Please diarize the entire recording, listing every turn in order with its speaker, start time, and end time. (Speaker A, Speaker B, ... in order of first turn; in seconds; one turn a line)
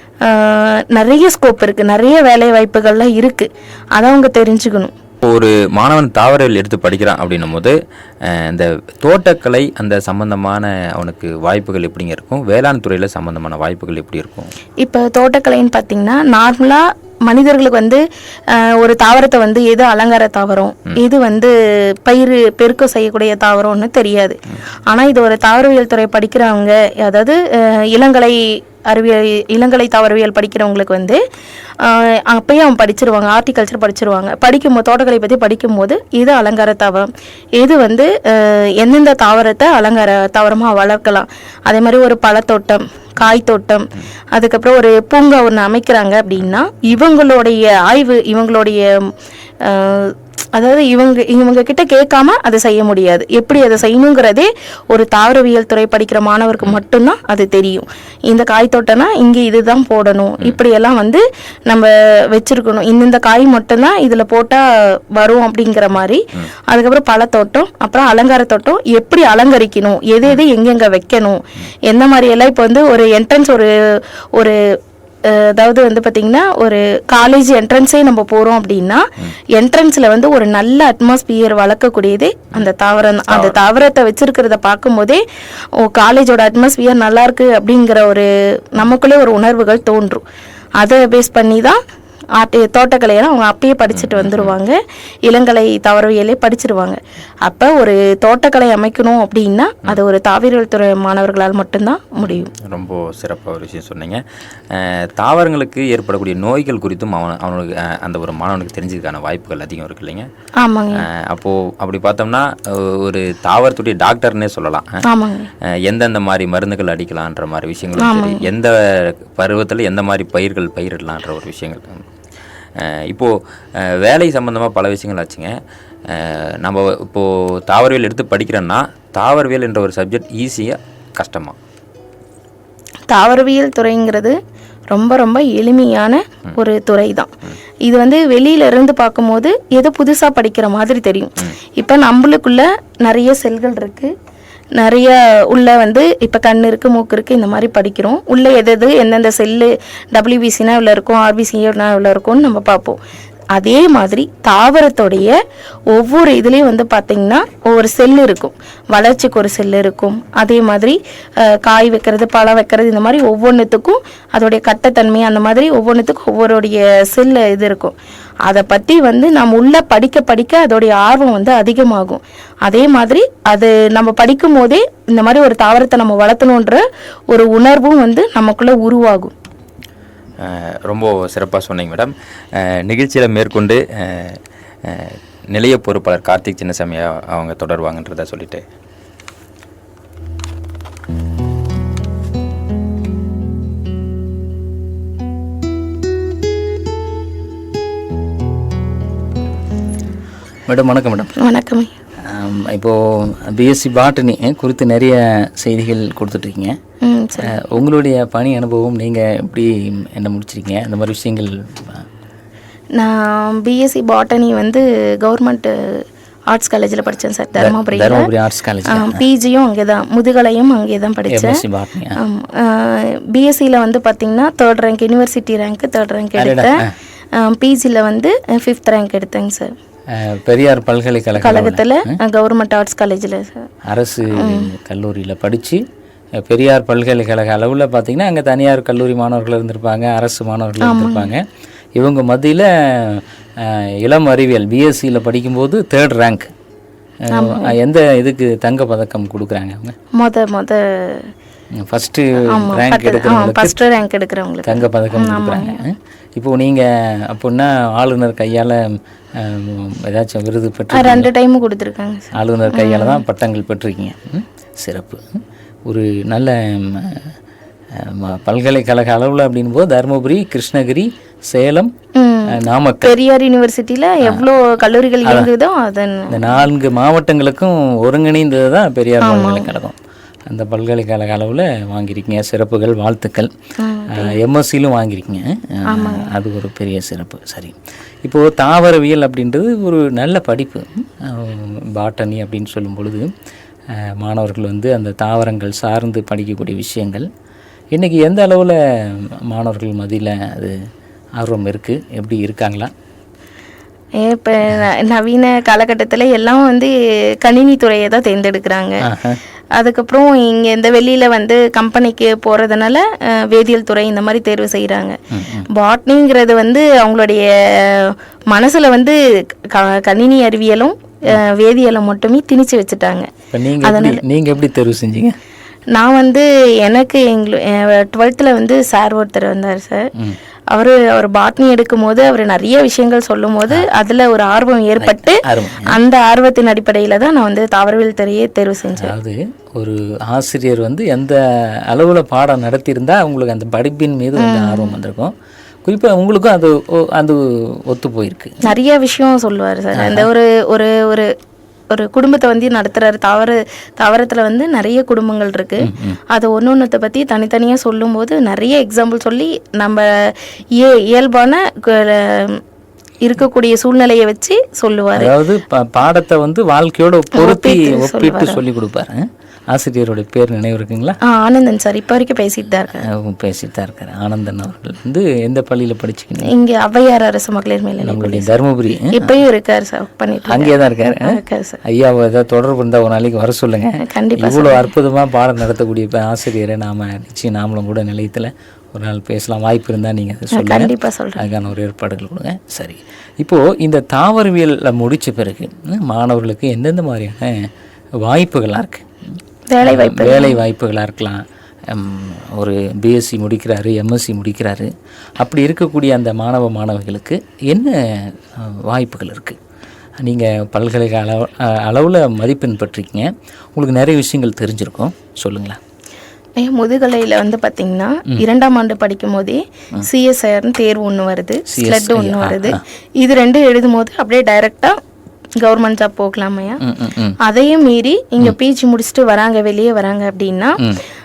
Speaker A: 0.2-4.9
Speaker B: 5.2-14.5
Speaker A: 14.8-31.2
Speaker A: 31.8-49.1
Speaker A: 49.6-74.6
Speaker A: 75.2-85.2
Speaker B: 83.3-83.6
Speaker A: 85.8-90.2
Speaker A: 90.8-91.8
Speaker A: 92.4-102.5
Speaker B: 93.9-94.5
Speaker B: 102.5-110.3
Speaker A: 110.6-111.0
Speaker B: 111.0-115.0
Speaker A: 115.0-115.5
Speaker B: 115.6-122.0
Speaker A: 118.0-118.4
Speaker B: 122.8-131.6
Speaker A: 133.1-134.4
Speaker A: 134.9-137.3
Speaker A: 137.8-144.1
Speaker A: 144.8-153.0
Speaker A: 153.5-155.4
Speaker A: 155.9-167.9
Speaker A: 168.4-179.3
Speaker B: 180.4-188.7
Speaker C: 200.7-201.3
Speaker A: 201.4-201.9
Speaker C: 202.2-206.8
Speaker A: 207.0-207.6
Speaker C: 207.4-212.1
Speaker A: 212.9-218.3
Speaker C: 217.6-219.2
Speaker A: 218.8-221.6
Speaker C: 221.3-222.2
Speaker A: 222.1-226.8
Speaker C: 226.4-226.9
Speaker A: 227.3-229.7
Speaker C: 230.1-232.2
Speaker A: 231.4-233.7
Speaker C: 233.8-235.8
Speaker A: 234.3-234.7
Speaker C: 236.3-246.5
Speaker A: 240.8-241.3
Speaker C: 247.3-250.0
Speaker A: 247.3-247.8
Speaker A: 250.1-251.3
Speaker C: 251.8-253.8
Speaker A: 252.5-255.8
Speaker C: 254.6-261.3
Speaker A: 260.9-263.2
Speaker C: 262.3-267.4
Speaker C: 267.9-271.9
Speaker A: 272.1-276.6
Speaker C: 272.5-273.1
Speaker C: 275.2-275.5
Speaker C: 276.3-279.9
Speaker A: 279.2-279.7
Speaker C: 280.5-283.5
Speaker A: 283.8-284.4
Speaker C: 284.1-293.3
Speaker A: 285.9-286.3
Speaker C: 293.9-297.3
Speaker C: 297.9-300.8
Speaker C: 301.4-302.9
Speaker A: 304.2-309.1
Speaker C: 309.1-309.4
Speaker A: 309.8-315.2
Speaker C: 315.3-315.7
Speaker A: 315.7-323.3
Speaker C: 323.5-325.4
Speaker A: 323.8-324.2
Speaker A: 325.9-330.1
Speaker A: 330.7-339.1
Speaker C: 335.0-335.9
Speaker C: 339.0-345.3
Speaker A: 344.4-345.0
Speaker C: 345.8-348.6
Speaker A: 348.6-351.3
Speaker C: 349.9-350.3
Speaker A: 351.9-362.6
Speaker C: 355.8-356.2
Speaker A: 363.2-365.3
Speaker C: 365.1-371.2
Speaker A: 367.3-368.6
Speaker A: 371.2-373.0
Speaker C: 373.0-376.5
Speaker A: 376.4-378.5
Speaker C: 378.0-379.4
Speaker A: 379.1-381.8
Speaker C: 380.5-397.7
Speaker A: 384.0-384.9
Speaker A: 390.5-391.4
Speaker C: 398.2-404.9
Speaker A: 399.7-400.6
Speaker C: 405.4-409.6
Speaker C: 410.2-415.8
Speaker A: 416.6-425.0
Speaker C: 421.7-422.8
Speaker A: 425.6-426.8
Speaker C: 426.8-427.4
Speaker A: 427.4-430.8